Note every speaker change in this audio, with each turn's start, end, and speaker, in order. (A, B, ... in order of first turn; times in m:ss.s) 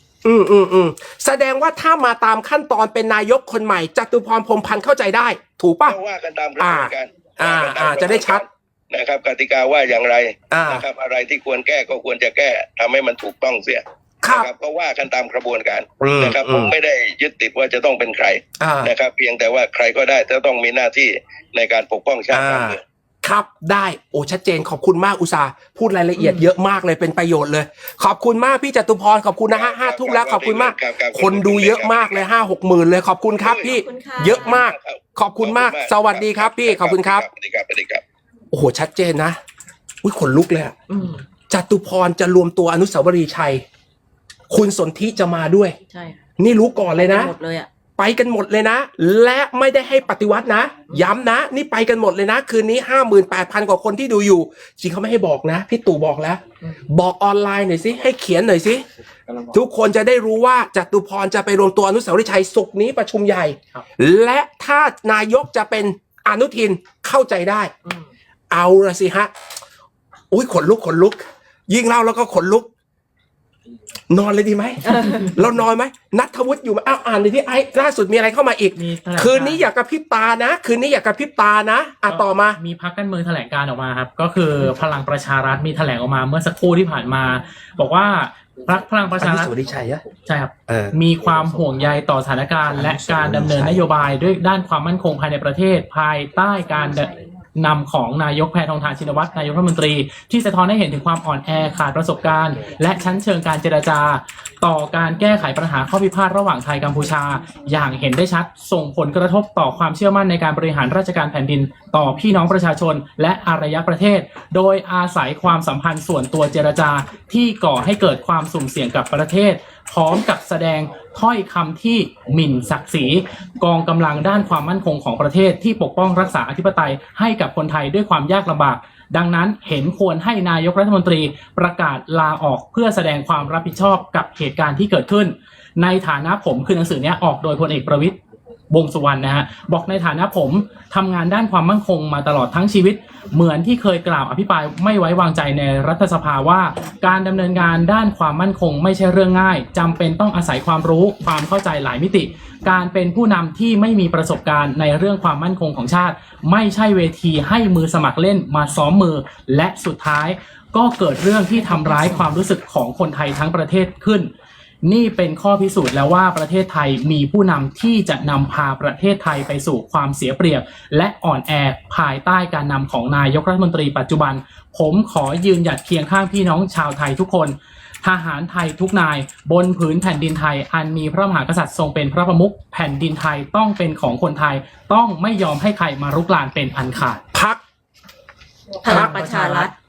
0:00.2-0:06.0 A
0:05.8-0:22.8 B
0:06.6-0:08.4 A
0:10.5-0:10.8 A
0:14.2-0:14.5 A
0:16.0-0:16.7 A
0:18.6-0:18.9 A
0:22.3-0:37.3 A
0:26.2-0:26.5 C
0:29.5-0:32.3 B
0:33.4-0:33.7 B
0:33.5-0:34.6 C
0:34.3-0:38.0 B
0:38.5-0:39.4 A
0:40.0-0:40.8 A
0:40.9-0:41.2 C
0:41.5-0:43.6 A
0:44.5-0:45.8 A
0:45.9-0:46.2 C
0:46.4-0:47.3 A
0:46.9-0:47.7 C
0:48.0-0:58.8 A
0:59.5-1:07.7 A
1:08.5-1:09.3 A
1:10.3-1:12.7 A
1:14.1-1:22.6 A
1:14.9-1:15.3 C
1:18.8-1:19.7 D
1:22.1-1:29.5 D
1:29.2-1:30.0 A
1:30.2-2:18.2 D
1:30.7-1:31.0 A
1:32.7-1:33.8 A
2:18.7-2:44.3 D
2:41.8-2:42.2 C
2:44.8-3:07.2 D
3:07.3-3:07.6 A
3:08.8-3:09.7 D
3:08.8-3:09.7 C
3:08.9-3:09.2 A